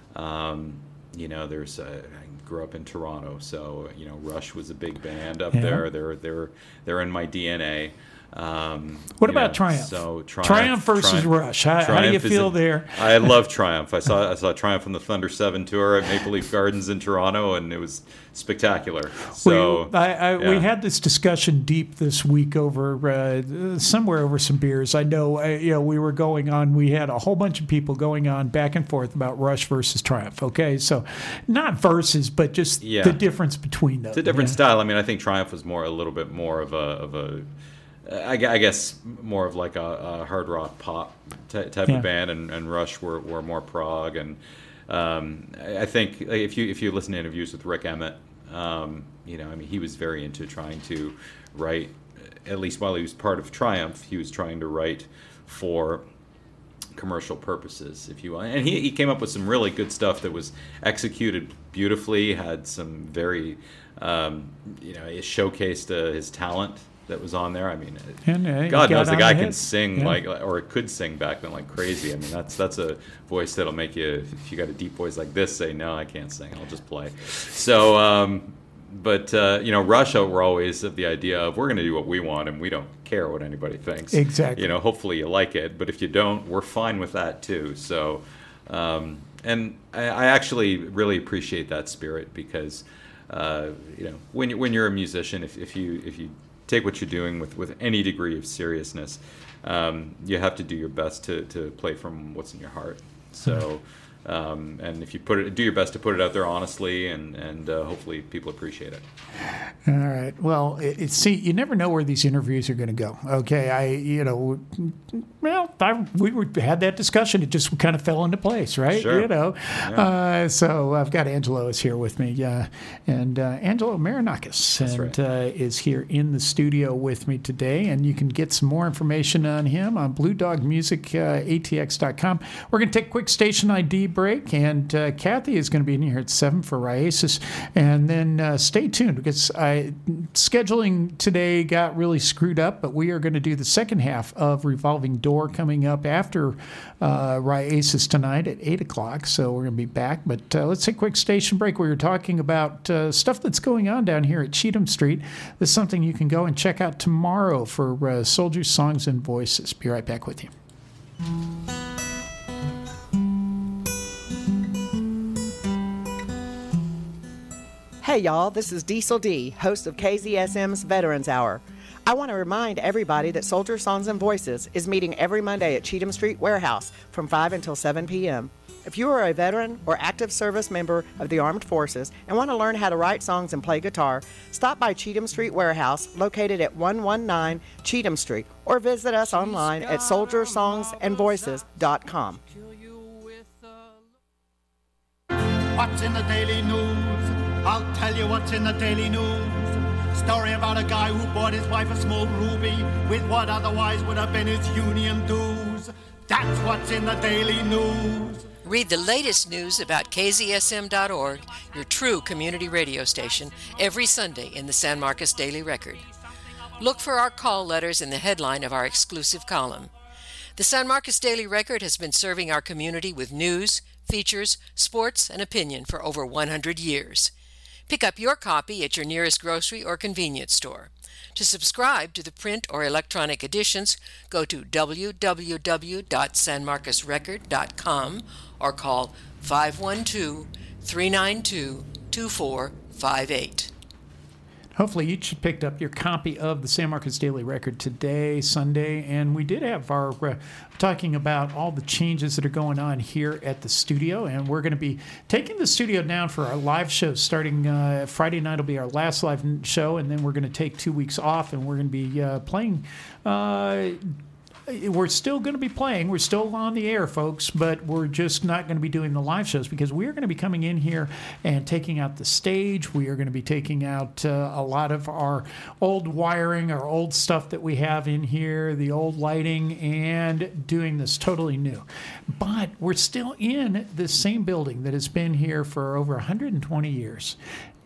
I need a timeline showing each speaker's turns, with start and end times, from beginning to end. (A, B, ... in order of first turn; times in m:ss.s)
0:00.2-0:11.2 A
0:05.5-0:05.9 B
0:09.2-0:13.4 B
0:11.9-0:12.4 A
0:13.0-0:19.9 A
0:19.4-0:34.6 B
0:34.3-0:37.4 A
0:38.1-0:44.4 A
0:44.9-0:49.8 A
0:52.5-0:54.2 A
0:54.7-0:56.0 A
0:57.0-1:08.2 A
1:08.2-1:10.2 B
1:08.7-1:32.7 A
1:24.1-1:24.8 B
1:33.3-1:34.8 A
1:36.1-1:49.0 A
1:49.9-2:40.5 B
2:48.0-3:12.4 C
3:15.8-3:28.5 D
3:28.6-3:36.0 E
3:36.8-3:39.9 E
3:40.6-3:47.3 E
3:47.9-4:03.7 E
4:04.8-4:24.0 B
4:24.7-4:47.4 B